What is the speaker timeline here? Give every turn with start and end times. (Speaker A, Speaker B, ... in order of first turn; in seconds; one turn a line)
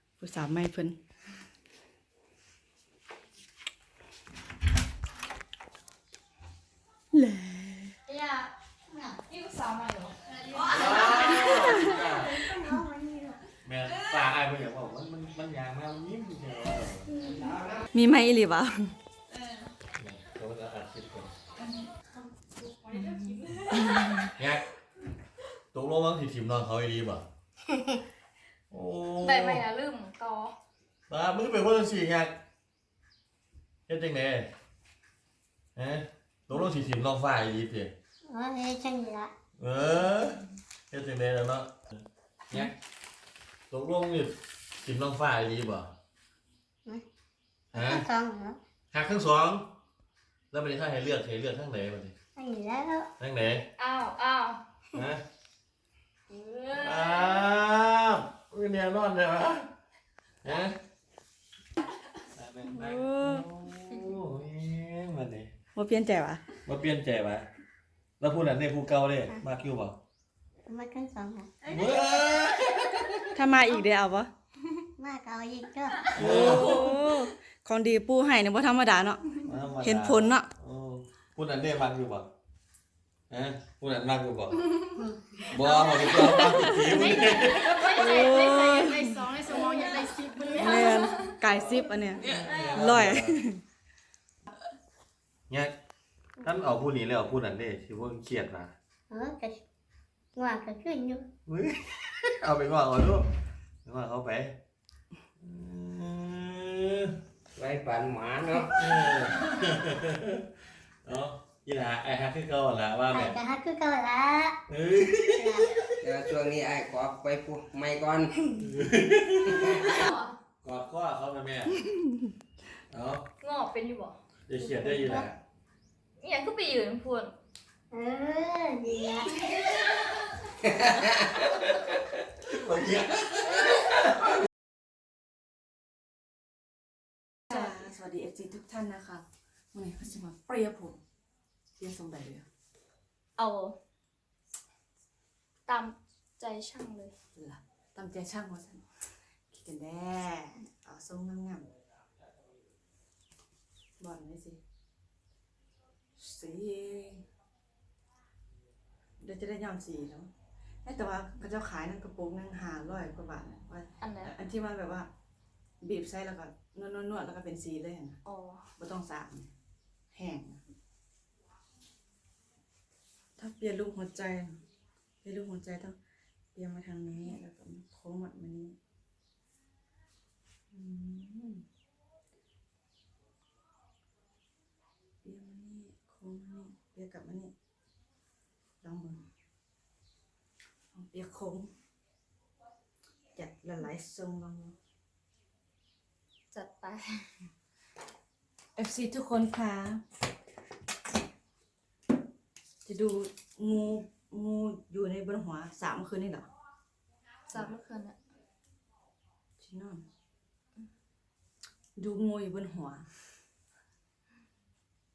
Speaker A: 0.2-1.0
Speaker A: 7.1-7.9
Speaker B: 8.9-9.2
Speaker C: 9.3-11.9
Speaker D: 10.5-12.4
Speaker A: 11.5-11.9
Speaker B: 12.2-13.4
Speaker D: 13.6-17.1
Speaker B: 17.2-17.5
Speaker A: 17.9-18.9
Speaker D: 20.0-21.3
Speaker C: 22.9-23.8
Speaker A: 23.9-24.3
Speaker D: 24.4-24.6
Speaker D: 25.7-27.2
Speaker D: 28.7-29.6
Speaker C: 29.2-30.6
Speaker D: 31.1-32.4
Speaker D: 33.9-34.5
Speaker D: 35.8-37.9
Speaker B: 38.3-39.3
Speaker D: 39.6-42.0
Speaker D: 43.7-45.9
Speaker D: 47.7-48.0
Speaker B: 47.7-48.6
Speaker D: 48.9-49.7
Speaker D: 50.5-52.1
Speaker B: 52.4-53.1
Speaker D: 53.2-53.7
Speaker C: 53.8-54.6
Speaker D: 54.9-55.2
Speaker C: 56.3-57.4
Speaker D: 56.7-59.7
Speaker D: 60.4-60.8
Speaker D: 62.3-65.5
Speaker A: 62.7-63.5
Speaker A: 65.7-66.4
Speaker D: 66.7-67.5
Speaker D: 68.2-70.0
Speaker B: 70.7-71.7
Speaker D: 71.7-73.1
Speaker A: 73.3-74.3
Speaker B: 75.0-76.2
Speaker D: 76.1-76.9
Speaker A: 76.1-80.5
Speaker C: 76.5-77.0
Speaker D: 79.4-82.3
Speaker D: 83.3-84.7
Speaker D: 85.5-87.9
Speaker C: 85.7-91.3
Speaker A: 86.1-86.8
Speaker A: 87.9-89.2
Speaker A: 90.5-93.6
Speaker D: 92.2-93.4
Speaker D: 95.5-95.7
Speaker D: 96.4-98.7
Speaker B: 99.1-99.6
Speaker B: 100.3-101.3
Speaker D: 101.5-103.3
Speaker D: 103.8-104.5
Speaker D: 105.4-107.2
Speaker E: 107.6-108.8
Speaker D: 108.8-110.5
Speaker D: 111.0-113.4
Speaker B: 113.1-114.6
Speaker D: 114.7-115.9
Speaker B: 115.3-115.7
Speaker E: 116.0-118.5
Speaker D: 118.6-120.0
Speaker E: 119.5-120.0
Speaker C: 119.9-120.3
Speaker D: 120.6-121.9
Speaker D: 122.9-123.3
Speaker C: 123.4-124.2
Speaker D: 124.5-125.4
Speaker B: 124.6-125.2
Speaker C: 126.2-127.3
Speaker B: 127.9-129.3
Speaker D: 132.5-133.9
Speaker A: 137.5-141.0
Speaker A: 141.8-142.5
Speaker C: 143.4-143.8
Speaker C: 145.7-147.1
Speaker A: 147.3-148.8
Speaker A: 149.5-151.7
Speaker A: 154.0-154.6
Speaker A: 156.2-157.2
Speaker A: 159.2-160.3
Speaker A: 160.8-165.1
Speaker C: 164.0-164.3
Speaker A: 165.8-168.2
Speaker C: 168.2-168.7
Speaker A: 168.8-169.5
Speaker A: 170.1-170.6
Speaker A: 173.4-174.6
Speaker A: 175.2-176.0
Speaker A: 176.5-178.8
Speaker A: 180.7-181.6
Speaker A: 185.2-187.5
Speaker A: 188.8-189.2
Speaker A: 190.9-191.7
Speaker A: 193.3-194.8
Speaker C: 196.5-197.3
Speaker A: 198.8-200.0
Speaker A: 202.8-206.5
Speaker C: 207.5-208.2
Speaker A: 209.6-210.0
Speaker A: 211.9-213.1